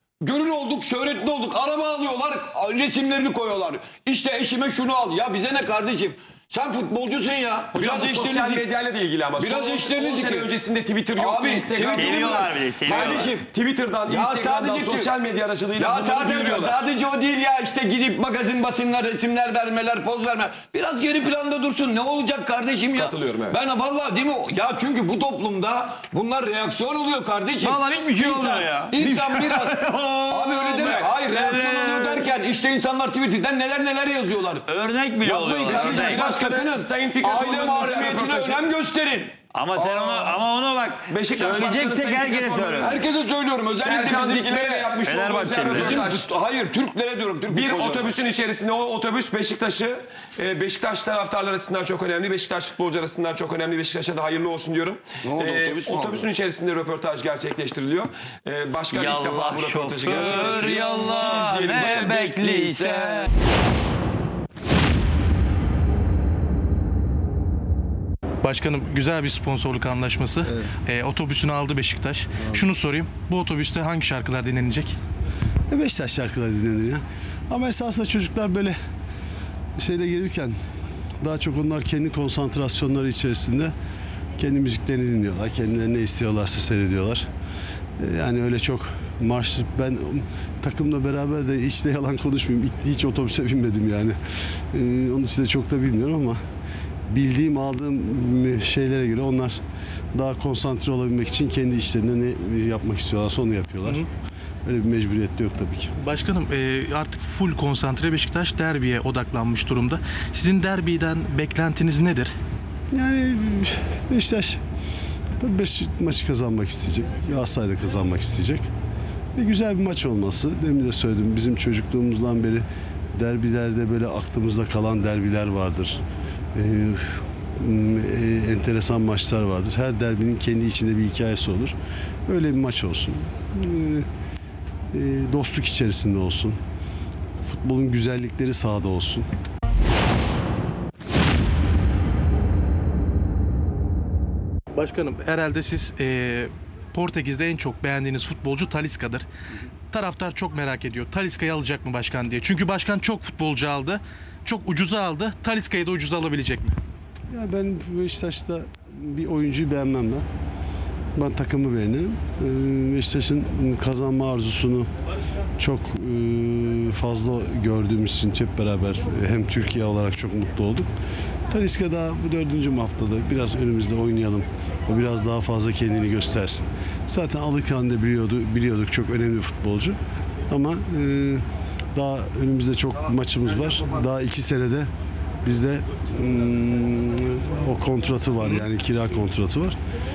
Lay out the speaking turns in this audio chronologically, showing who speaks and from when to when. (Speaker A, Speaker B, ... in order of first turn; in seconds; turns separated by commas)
Speaker A: 0.2-8.7, Speaker B: 7.7-16.9, Speaker A: 9.3-10.6, Speaker A: 11.1-13.5, Speaker C: 11.9-13.3, Speaker A: 14.0-15.1, Speaker A: 15.8-29.8, Speaker B: 22.9-23.6, Speaker C: 27.6-32.3, Speaker B: 29.0-29.4, Speaker A: 30.3-34.6, Speaker B: 30.8-31.1, Speaker C: 34.7-36.4, Speaker A: 35.2-40.1, Speaker B: 35.5-38.7, Speaker C: 39.5-43.0, Speaker B: 41.1-43.0, Speaker A: 42.8-45.0, Speaker B: 43.7-46.3, Speaker C: 45.0-46.1, Speaker A: 45.7-48.1, Speaker B: 47.5-62.3, Speaker A: 55.2-56.3, Speaker C: 58.9-63.3, Speaker A: 60.1-61.5, Speaker A: 62.1-63.3, Speaker D: 68.4-75.0, Speaker E: 75.7-78.8, Speaker E: 79.8-80.6, Speaker E: 81.2-83.7, Speaker E: 84.4-87.3, Speaker E: 88.0-94.2, Speaker E: 94.7-96.4, Speaker E: 97.1-99.6, Speaker E: 100.1-104.0, Speaker E: 104.7-105.9, Speaker D: 106.0-112.3, Speaker E: 112.9-114.6, Speaker E: 115.4-118.6, Speaker E: 119.3-122.6, Speaker E: 123.2-126.0, Speaker E: 126.5-131.7, Speaker E: 132.3-134.1, Speaker E: 134.9-136.6, Speaker E: 137.4-139.3, Speaker D: 144.7-149.2, Speaker D: 149.9-156.8, Speaker E: 157.3-160.2, Speaker E: 161.2-164.9, Speaker E: 165.6-170.9, Speaker E: 171.5-180.0, Speaker E: 180.5-184.9, Speaker E: 185.4-189.8